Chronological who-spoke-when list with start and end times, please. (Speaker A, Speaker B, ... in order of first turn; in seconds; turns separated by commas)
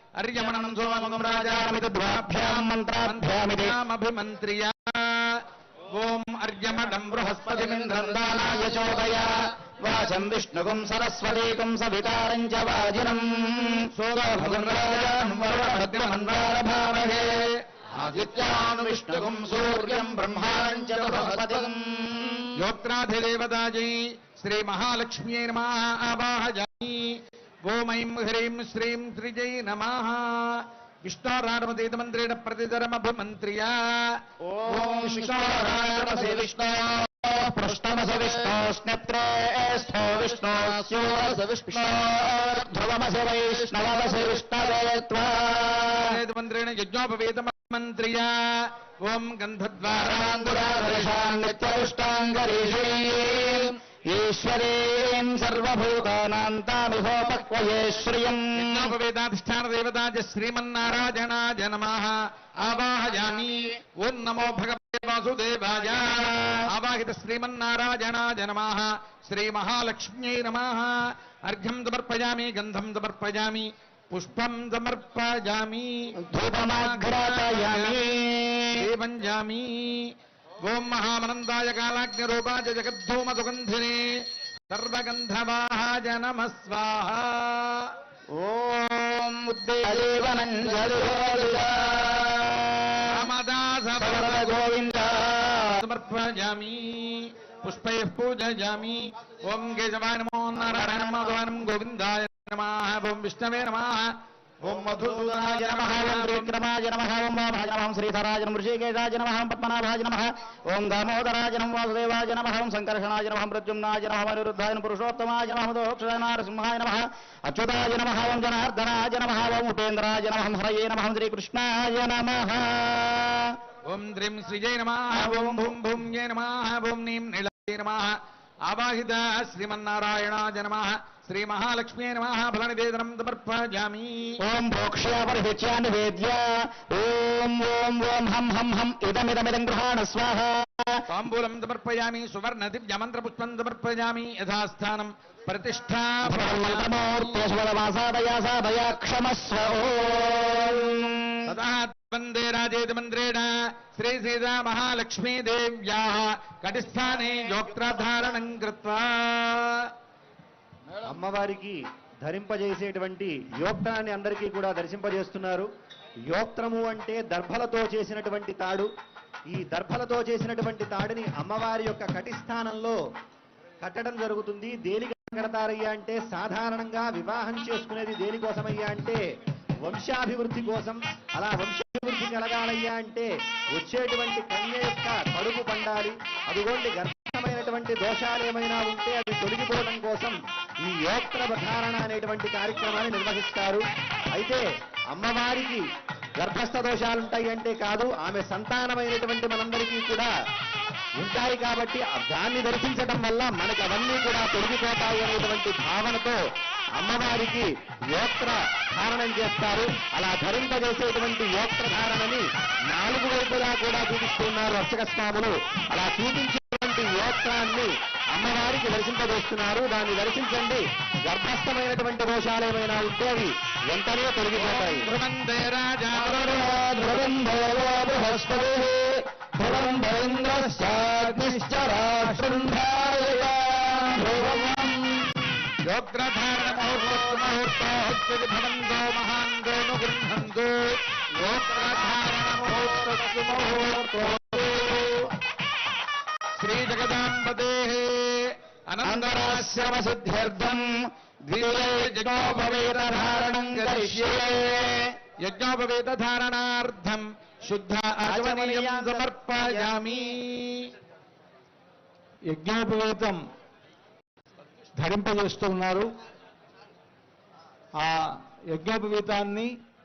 Speaker A: 0.2-7.7, Speaker B: 0.3-3.8, Speaker B: 7.2-22.5, Speaker A: 13.9-16.5, Speaker A: 17.1-17.5, Speaker A: 20.6-21.4, Speaker A: 22.6-34.2, Speaker B: 34.4-46.2, Speaker A: 34.7-36.4, Speaker A: 46.0-50.4, Speaker B: 49.8-58.9, Speaker A: 58.6-78.0, Speaker B: 66.1-66.7, Speaker B: 76.2-78.8, Speaker A: 78.7-87.9, Speaker B: 88.3-93.2, Speaker A: 93.1-94.6, Speaker B: 94.0-95.8, Speaker A: 95.8-106.5, Speaker B: 100.6-101.2, Speaker B: 104.6-123.5, Speaker A: 123.8-134.4, Speaker B: 125.1-125.7, Speaker B: 134.4-141.1, Speaker A: 141.1-146.9, Speaker B: 146.2-151.4, Speaker A: 151.5-159.9, Speaker C: 161.1-165.7, Speaker C: 166.3-168.9, Speaker C: 169.5-173.0, Speaker C: 173.8-179.2, Speaker C: 179.8-195.8, Speaker C: 196.4-200.3, Speaker C: 201.2-206.4, Speaker C: 207.0-225.1, Speaker A: 224.5-226.7, Speaker B: 226.1-235.4, Speaker A: 230.4-232.7, Speaker A: 235.8-245.1, Speaker B: 242.7-245.2, Speaker A: 246.6-250.0, Speaker B: 249.0-255.1, Speaker A: 251.5-254.5, Speaker A: 255.4-260.9, Speaker B: 258.2-259.3, Speaker B: 259.8-260.2, Speaker D: 262.5-263.4, Speaker D: 265.0-266.1, Speaker D: 268.0-269.7